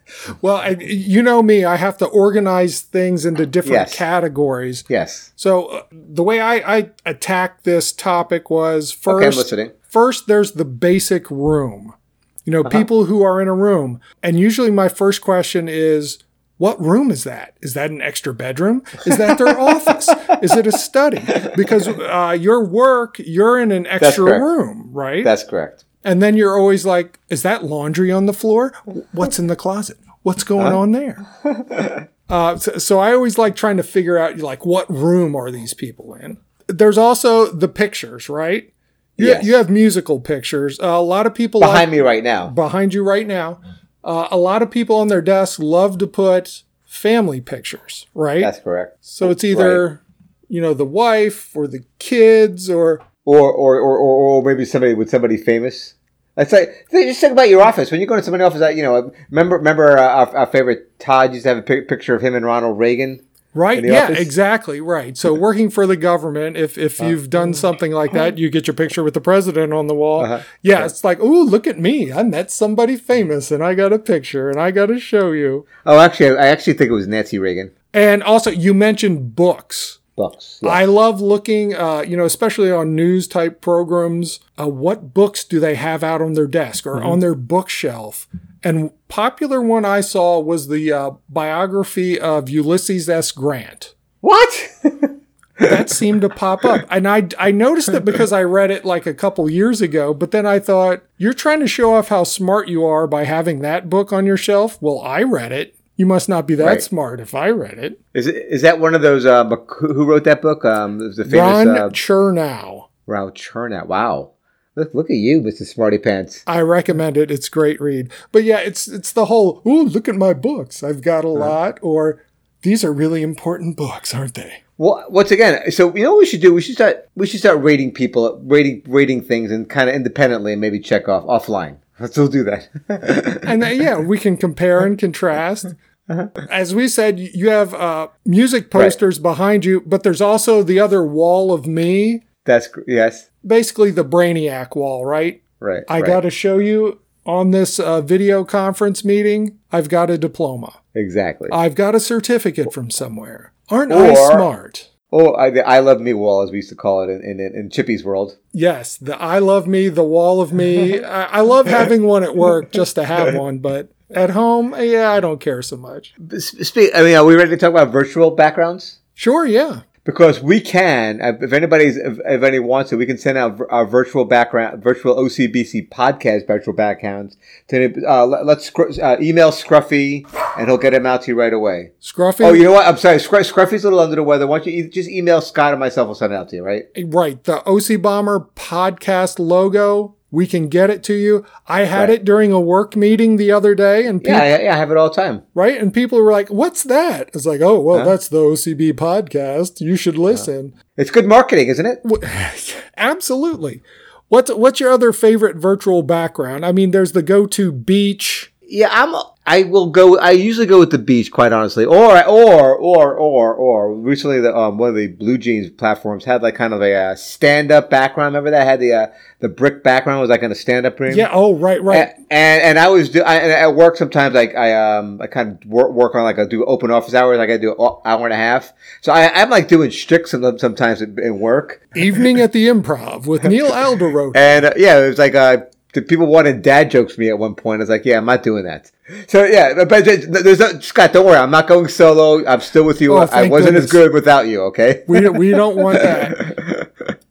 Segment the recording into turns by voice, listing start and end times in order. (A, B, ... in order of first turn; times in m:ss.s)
0:00.4-0:04.8 A
0:03.6-0:04.0 B
0:04.9-0:05.3 B
0:05.4-0:25.3 A
0:09.1-0:09.7 B
0:24.0-0:24.5 B
0:25.2-0:25.8 B
0:26.0-0:31.2 A
0:31.5-0:32.0 B
0:32.3-0:41.9 A
0:39.2-0:39.6 B
0:41.6-0:42.5 B
0:42.4-0:48.5 A
0:48.4-0:49.8 B
0:49.0-0:53.0 A
0:53.2-1:03.2 B
1:03.5-1:15.7 A
1:03.8-1:04.3 B
1:10.2-1:10.9 B
1:15.8-1:17.7 B
1:17.9-1:20.0 A
1:20.2-1:20.9 B
1:20.6-1:33.9 A
1:34.2-1:35.7 B
1:35.6-1:48.0 A
1:46.6-1:46.9 B
1:48.1-1:52.0 B
1:51.3-1:52.9 A
1:53.1-1:56.4 B
1:56.5-2:04.6 A
2:04.8-2:13.5 B
2:13.4-2:15.7 A
2:16.4-2:22.2 A
2:22.4-2:23.3 B
2:23.4-2:30.8 A
2:25.6-2:26.2 B
2:31.0-2:31.6 B
2:31.5-2:34.9 A
2:33.9-2:34.5 B
2:35.1-2:38.4 B
2:38.5-2:46.1 A
2:46.2-2:49.0 B
2:49.2-2:49.8 A
2:50.0-3:06.9 B
3:02.0-3:02.6 A
3:07.0-3:14.5 A
3:14.2-3:15.4 B
3:15.6-3:20.8 A
3:20.3-3:22.0 B
3:22.0-3:28.5 A
3:28.7-3:41.3 B
3:41.1-3:42.1 A
3:41.9-3:51.9 B
3:52.0-3:54.6 A
3:54.3-4:07.1 B
4:03.1-4:04.0 A
4:05.1-4:06.4 A